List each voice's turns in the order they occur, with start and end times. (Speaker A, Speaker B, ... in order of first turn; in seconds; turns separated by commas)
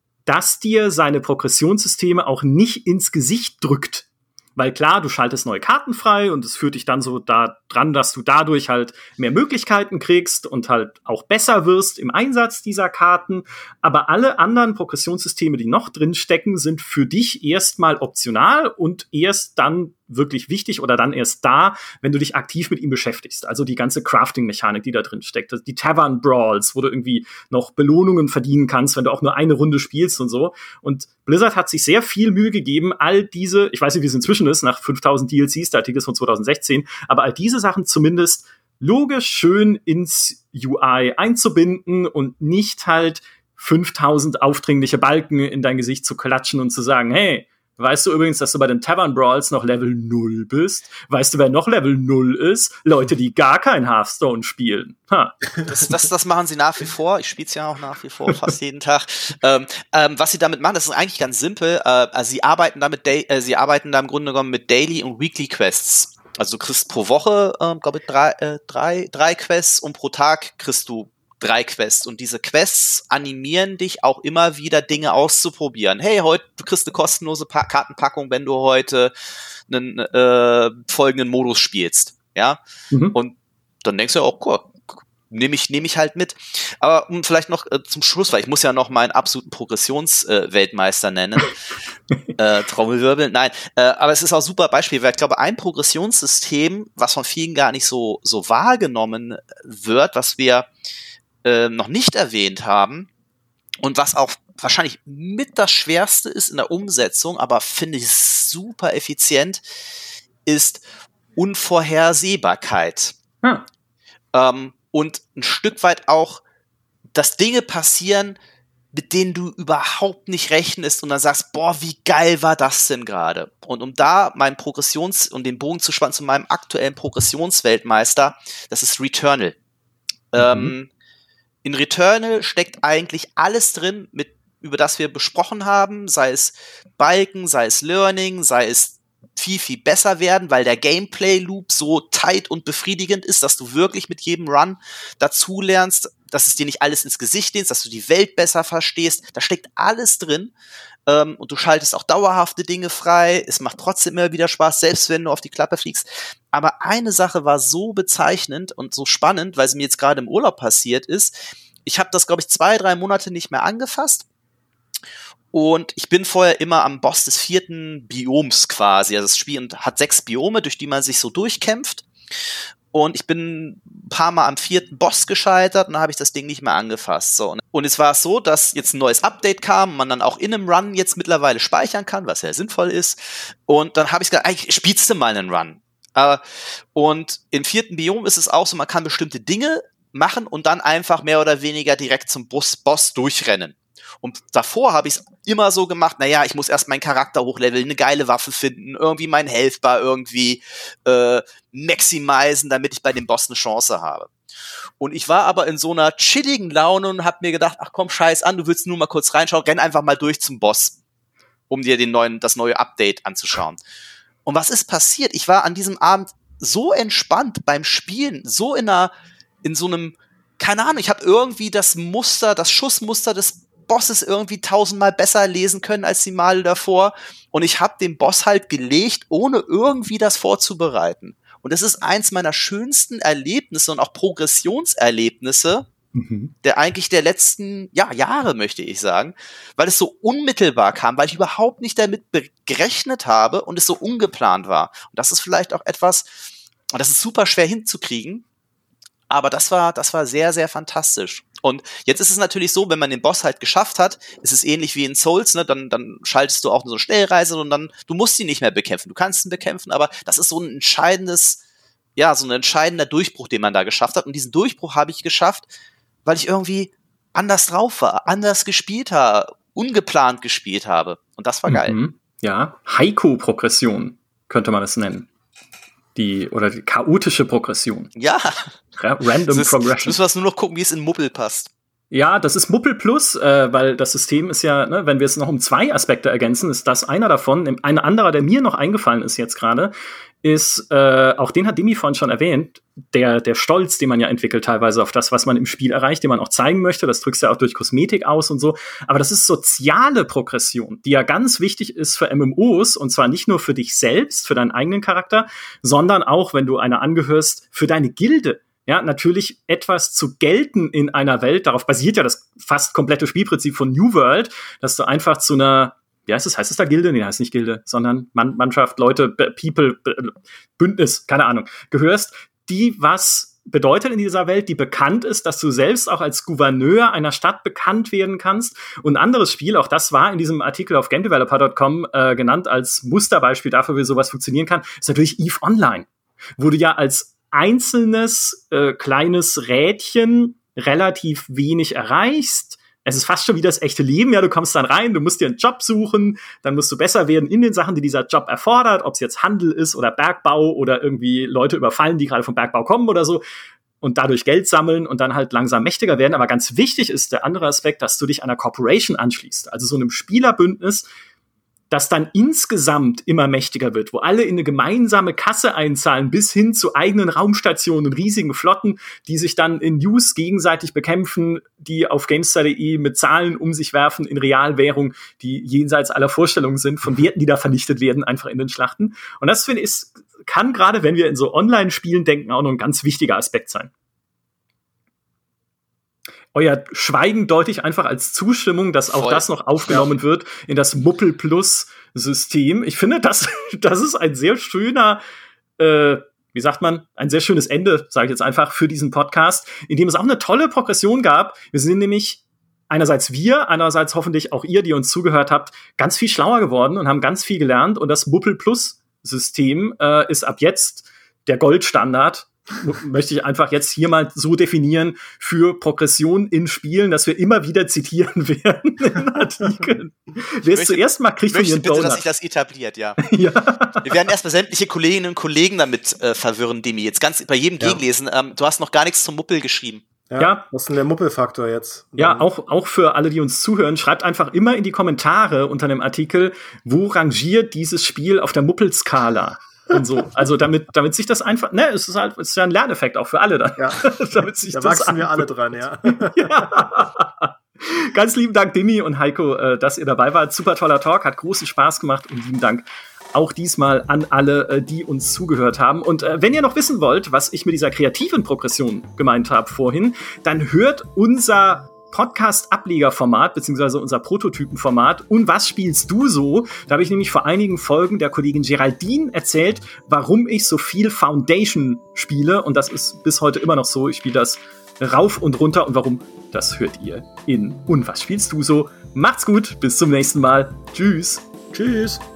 Speaker A: 0.2-55.4, Speaker B: 55.6-79.1, Speaker B: 79.7-82.6, Speaker B: 83.1-91.6, Speaker B: 92.4-100.7, Speaker B: 101.4-103.1, Speaker B: 103.8-109.6, Speaker B: 110.5-110.8, Speaker B: 111.3-113.1, Speaker B: 114.3-116.4, Speaker B: 117.1-118.3, Speaker B: 118.9-129.6, Speaker B: 130.3-130.9, Speaker A: 130.4-130.7, Speaker B: 131.6-150.5, Speaker B: 151.1-164.2, Speaker B: 165.5-172.1, Speaker B: 172.9-186.4, Speaker B: 186.9-204.3, Speaker B: 205.0-211.0, Speaker B: 211.7-213.8, Speaker B: 214.4-219.1, Speaker B: 219.6-235.9, Speaker A: 236.1-236.5, Speaker B: 236.6-246.4, Speaker B: 246.9-248.4, Speaker B: 249.3-261.6, Speaker B: 262.1-265.7, Speaker B: 266.2-271.9, Speaker A: 271.7-275.3, Speaker A: 276.1-278.1, Speaker B: 278.1-278.7, Speaker A: 279.0-280.1, Speaker B: 279.5-281.7, Speaker A: 282.1-353.4, Speaker A: 354.0-361.1, Speaker A: 361.9-383.9, Speaker A: 386.5-395.2, Speaker B: 389.1-390.0, Speaker A: 395.8-422.2, Speaker B: 420.7-423.2, Speaker A: 423.2-424.2, Speaker B: 424.0-430.0, Speaker C: 430.3-432.5, Speaker A: 430.4-430.6, Speaker A: 432.2-445.5, Speaker C: 444.7-446.8, Speaker A: 446.0-481.4, Speaker C: 481.7-482.2